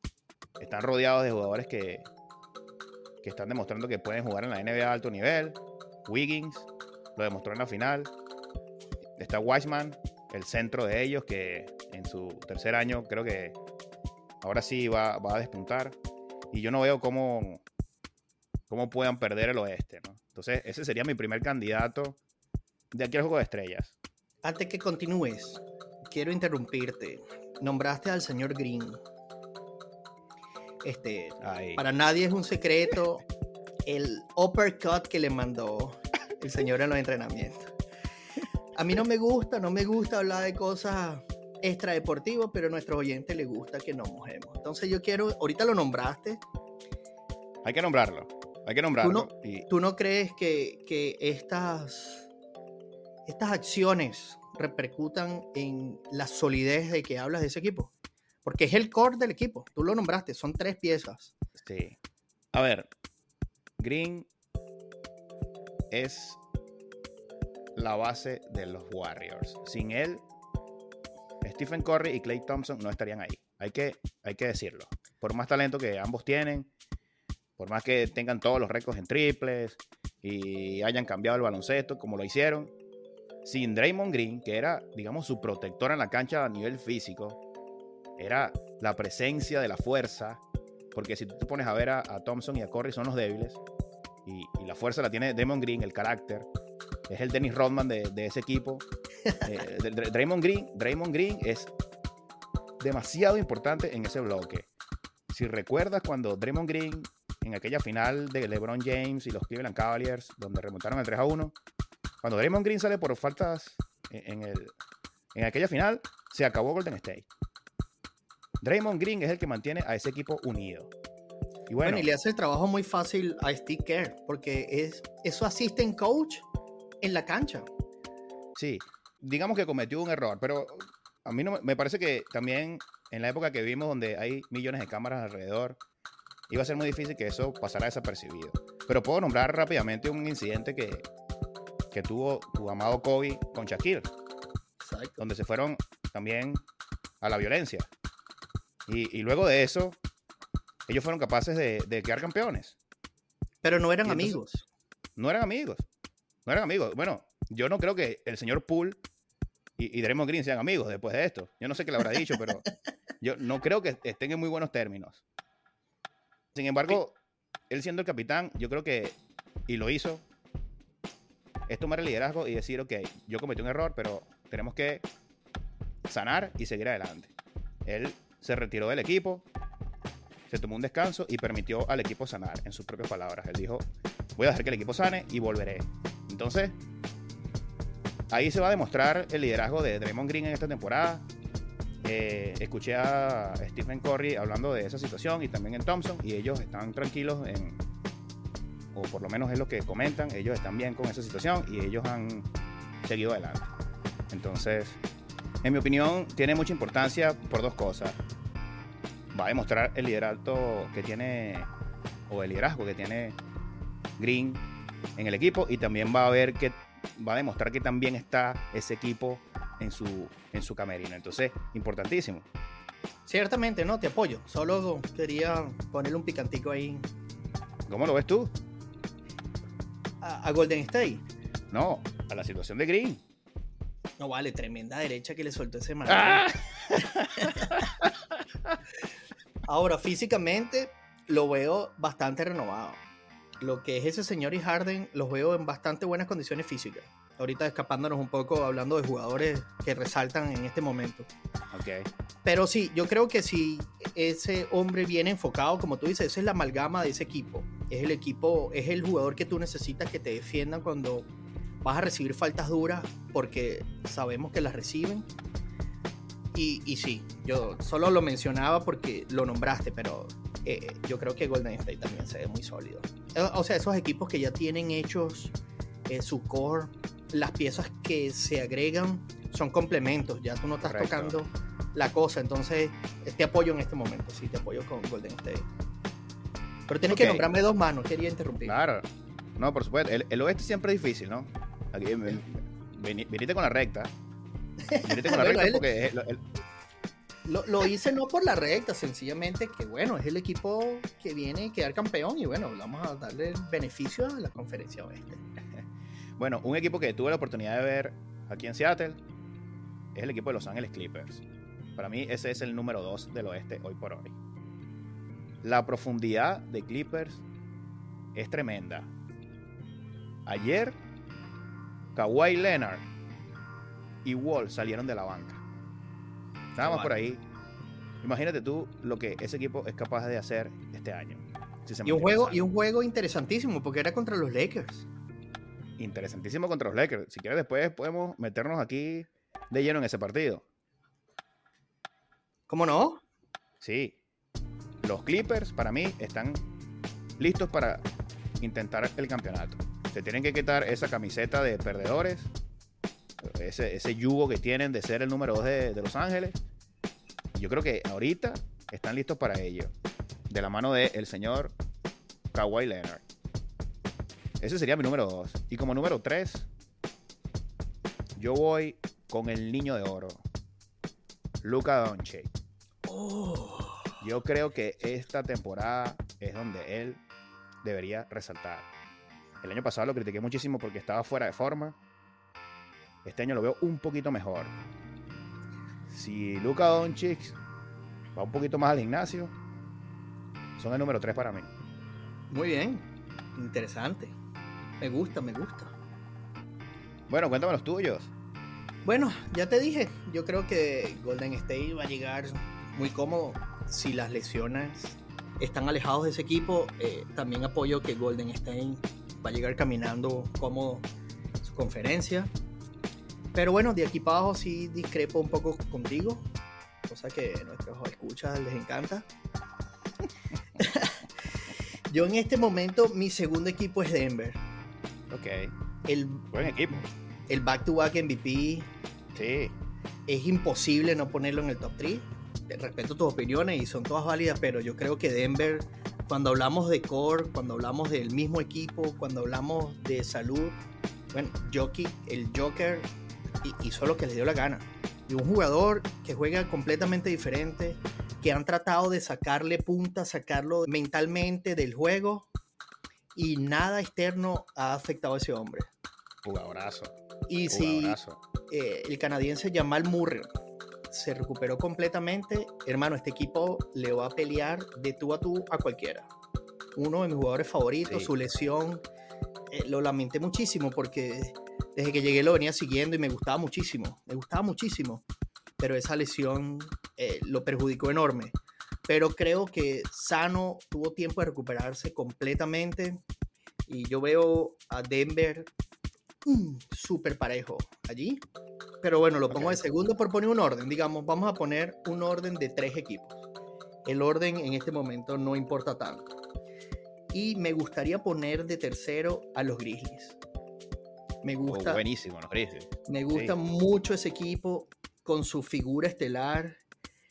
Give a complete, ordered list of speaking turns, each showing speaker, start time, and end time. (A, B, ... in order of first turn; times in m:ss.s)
0:00.6-0:02.1 A
0:03.2-0:08.1 A
0:09.2-0:13.6 A
0:14.4-0:16.0 A
0:16.5-0:17.6 A
0:18.7-0:22.2 A
0:22.9-0:24.0 A
0:24.4-0:29.0 B
0:30.8-0:33.2 B
0:31.4-0:31.8 A
0:33.8-0:37.7 B
0:38.8-0:46.4 B
0:47.6-0:49.7 A
0:49.0-0:52.3 B
0:53.2-0:57.9 B
0:58.4-1:01.3 B
1:01.6-1:02.0 A
1:02.5-1:02.9 A
1:03.8-1:04.3 A
1:05.9-1:06.4 A
1:07.8-1:10.2 A
1:11.4-1:16.7 A
1:17.6-1:22.7 A
1:23.4-1:27.4 A
1:28.2-1:30.4 A
1:30.9-1:33.6 A
1:34.2-1:36.5 A
1:37.1-1:38.8 A
1:39.4-1:41.7 A
1:42.8-1:44.7 A
1:45.3-1:51.5 A
1:52.2-1:54.7 A
1:55.3-1:57.3 A
1:58.6-2:00.9 A
2:01.7-2:02.1 A
2:01.8-2:06.4 B
2:07.0-2:07.7 B
2:08.6-2:15.8 A
2:16.5-2:21.0 A
2:21.9-2:24.1 A
2:24.8-2:25.2 B
2:25.2-2:26.6 A
2:27.2-2:27.9 A
2:28.9-2:30.0 A
2:30.9-2:32.8 A
2:33.6-2:34.6 B
2:34.0-2:34.4 A
2:35.2-2:35.8 A
2:36.4-2:39.0 A
2:39.8-2:42.6 A
2:43.2-2:45.2 A
2:46.5-2:47.2 A
2:47.7-2:50.2 A
2:51.7-2:55.0 A
2:56.0-2:57.3 A
2:57.8-2:59.4 A
3:00.5-3:06.8 A
3:08.3-3:11.2 A
3:12.0-3:17.8 A
3:18.9-3:22.5 A
3:23.0-3:23.7 A
3:24.3-3:25.0 A
3:25.6-3:28.2 A
3:29.3-3:31.7 A
3:32.3-3:33.4 A
3:34.2-3:34.6 A
3:35.2-3:42.5 A
3:43.3-3:47.0 B
3:47.9-3:48.5 A
3:50.2-3:51.2 B
3:51.7-3:53.2 A
3:54.2-3:57.8 B
3:56.1-3:58.7 A
3:59.7-4:03.0 B
4:03.6-4:11.3 B
4:11.7-4:12.1 A
4:12.4-4:21.3 B
4:21.8-4:25.3 B
4:26.5-4:35.5 B
4:36.1-4:45.7 B
4:40.8-4:41.3 A
4:46.9-4:48.7 B
4:47.0-4:47.5 A
4:48.6-4:49.0 A
4:49.6-4:54.1 A
4:54.8-4:55.8 B
4:55.0-4:56.4 A
4:57.4-5:05.4 B
5:05.7-5:09.2 A
5:10.1-5:11.4 A
5:12.0-5:14.4 A
5:15.6-5:17.4 A
5:18.3-5:19.1 A
5:20.4-5:21.0 A
5:22.1-5:23.0 A
5:24.2-5:25.6 A
5:26.8-5:27.4 A
5:26.8-5:27.1 B
5:28.2-5:32.6 A
5:32.0-5:35.1 B
5:36.0-5:40.6 A
5:42.7-5:43.2 B
5:43.8-5:44.2 A
5:45.0-5:46.6 A
5:47.4-5:48.0 A
5:48.6-5:52.5 A
5:53.4-5:56.6 A
5:57.5-5:59.9 A
6:00.5-6:01.8 A
6:02.5-6:03.2 A
6:04.6-6:06.7 A
6:08.4-6:10.4 A
6:11.6-6:12.5 A
6:13.0-6:14.1 B
6:14.2-6:17.2 A
6:17.8-6:18.9 A
6:19.6-6:22.0 A
6:23.2-6:24.7 A
6:26.1-6:27.6 A
6:28.3-6:29.5 A
6:30.8-6:31.7 A
6:32.5-6:34.3 B
6:35.0-6:35.9 B
6:37.3-6:38.3 A
6:39.0-6:51.0 B
6:51.6-6:52.5 B
6:53.5-6:56.4 B
6:57.1-6:59.3 B
7:00.8-7:01.3 B
7:02.1-7:04.6 B
7:05.3-7:05.7 A
7:06.0-7:06.5 B
7:06.5-7:07.0 A
7:07.5-7:08.9 B
7:09.3-7:09.8 A
7:10.3-7:20.8 B
7:21.3-7:23.1 B
7:23.6-7:32.5 B
7:33.4-7:35.9 B
7:36.4-7:37.1 A
7:37.5-7:38.2 B
7:37.7-7:38.4 A
7:38.7-7:40.5 B
7:41.1-7:46.3 B
7:47.0-7:49.0 B
7:49.7-7:55.2 B
7:55.8-7:58.6 B
7:59.1-8:03.2 B
8:03.9-8:05.7 B
8:06.4-8:08.4 B
8:09.0-8:13.5 B
8:09.5-8:09.8 A
8:14.0-8:16.3 B
8:17.3-8:20.4 B
8:21.4-8:22.0 B
8:21.7-8:23.5 A
8:23.1-8:26.8 B